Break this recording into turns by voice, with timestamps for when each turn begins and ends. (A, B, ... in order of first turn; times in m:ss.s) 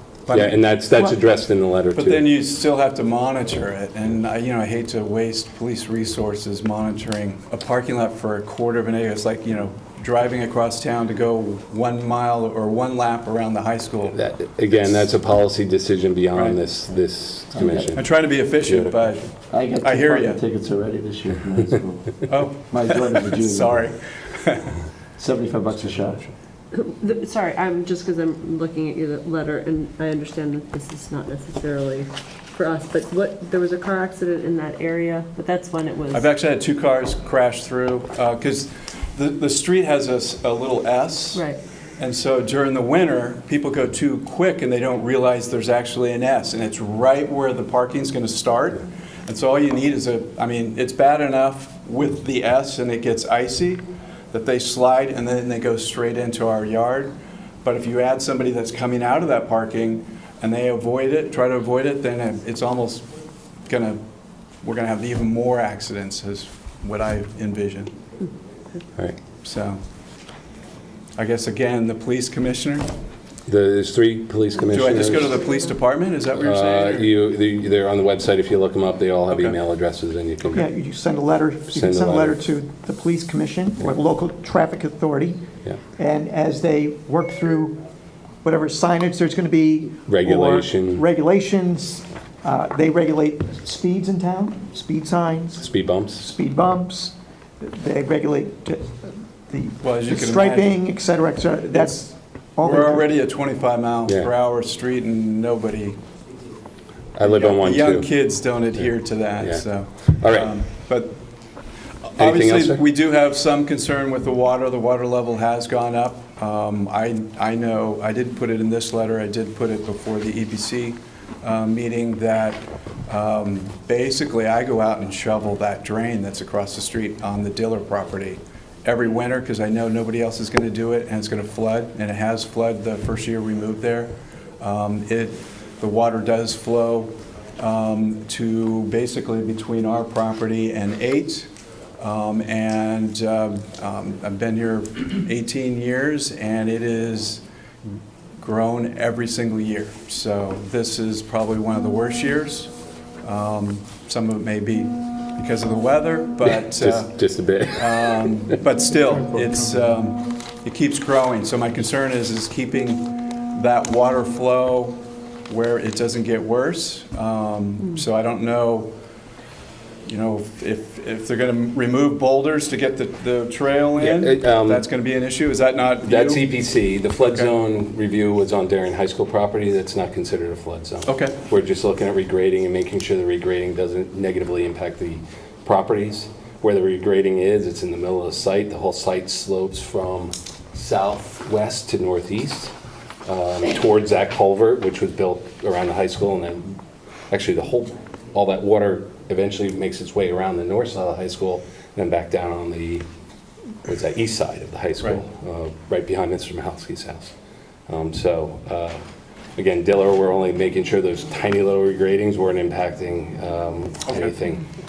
0:00.3-0:01.1 A
0:00.3-0:02.2 B
0:01.9-0:14.2 A
0:14.1-0:18.1 B
0:16.3-0:16.6 A
0:17.5-0:17.9 C
0:17.9-0:20.4 A
0:18.6-0:19.3 B
0:19.5-0:23.8 C
0:22.2-0:24.8 A
0:25.2-0:26.2 C
0:26.7-0:36.3 D
0:36.1-0:41.4 A
0:41.3-0:41.6 D
0:42.0-0:57.1 A
0:57.6-1:03.1 A
1:03.7-1:04.0 A
1:04.6-1:07.9 A
1:09.4-1:09.8 A
1:11.2-1:12.8 A
1:13.5-1:15.4 B
1:14.6-1:17.1 A
1:16.3-1:20.7 B
1:19.3-1:19.6 A
1:20.5-1:25.4 E
1:21.7-1:22.4 B
1:26.0-1:27.8 E
1:28.4-1:43.1 E
1:30.1-1:31.0 B
1:35.6-1:36.3 B
1:39.8-1:40.7 A
1:42.6-1:46.0 A
1:47.2-1:48.1 B
1:47.2-1:51.2 A
1:48.8-1:50.5 B
1:52.1-2:27.4 A
1:52.2-1:52.8 B
2:28.4-2:32.7 A
2:33.2-2:37.1 A
2:36.4-2:38.6 B
2:37.8-2:48.9 A
2:50.0-2:56.5 A
2:54.0-2:54.8 B
2:56.0-3:12.7 B
2:57.2-2:57.5 A
3:01.0-3:01.4 A
3:13.2-3:16.8 B
3:17.3-3:23.0 B
3:23.8-3:27.3 B
3:27.9-3:29.0 B
3:29.6-3:34.7 B
3:34.1-3:34.3 A